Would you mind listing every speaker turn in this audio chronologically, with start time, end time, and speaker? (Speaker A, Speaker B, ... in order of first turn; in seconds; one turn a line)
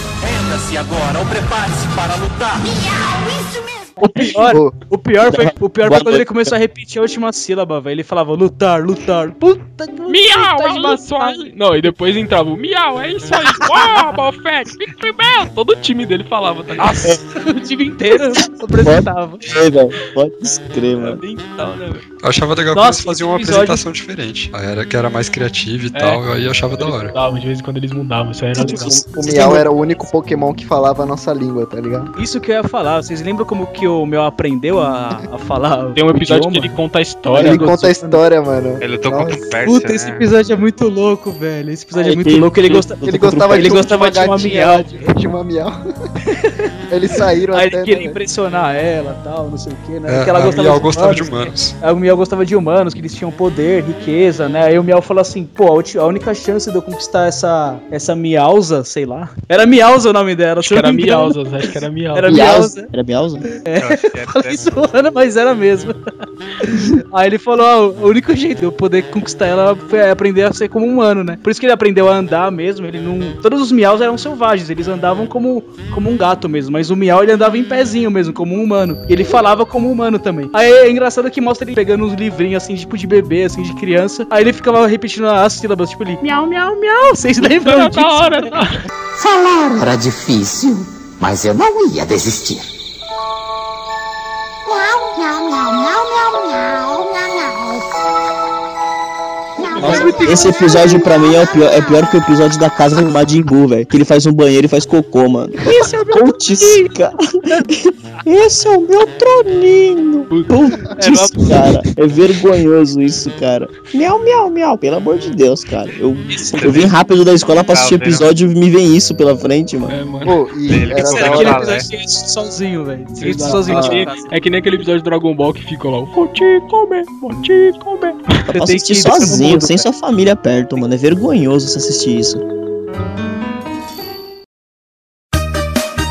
Speaker A: 0.2-2.7
Speaker B: 2.9-4.0
Speaker C: 4.0-11.5
Speaker D: 4.3-4.8
Speaker E: 5.2-6.5
Speaker F: 10.1-17.1
Speaker C: 16.8-19.5
Speaker E: 18.4-21.2
Speaker F: 20.9-22.0
Speaker G: 22.2-27.1
Speaker C: 22.7-23.8
Speaker F: 25.9-29.0
Speaker D: 28.6-32.1
Speaker E: 28.6-29.6
Speaker C: 28.7-29.6
Speaker C: 32.1-36.8
Speaker F: 35.9-37.7
Speaker C: 37.3-38.2
Speaker D: 37.3-39.4
Speaker H: 38.8-40.3
Speaker C: 39.6-45.1
Speaker E: 41.9-43.8
Speaker D: 43.0-45.8
Speaker D: 46.9-48.2
Speaker C: 47.5-61.4
Speaker G: 50.1-51.8
Speaker F: 60.6-62.3
Speaker C: 62.1-62.9
Speaker E: 62.2-63.4
Speaker C: 63.4-66.0
Speaker H: 63.8-64.9
Speaker C: 66.6-88.6
Speaker F: 87.6-88.8
Speaker I: 89.2-92.7
Speaker B: 94.7-97.8
Speaker F: 99.8-100.2
Speaker C: 99.8-101.2
Speaker E: 100.2-107.2
Speaker B: 100.5-102.0
Speaker C: 105.6-106.9
Speaker E: 107.8-120.0
Speaker F: 110.3-110.7
Speaker C: 111.0-111.8
Speaker H: 116.5-117.0
Speaker H: 117.5-118.3
Speaker F: 119.9-120.3
Speaker D: 120.2-121.6
Speaker H: 120.7-121.9
Speaker C: 120.9-124.2
Speaker F: 123.2-128.5
Speaker E: 128.5-132.4
Speaker C: 128.5-129.8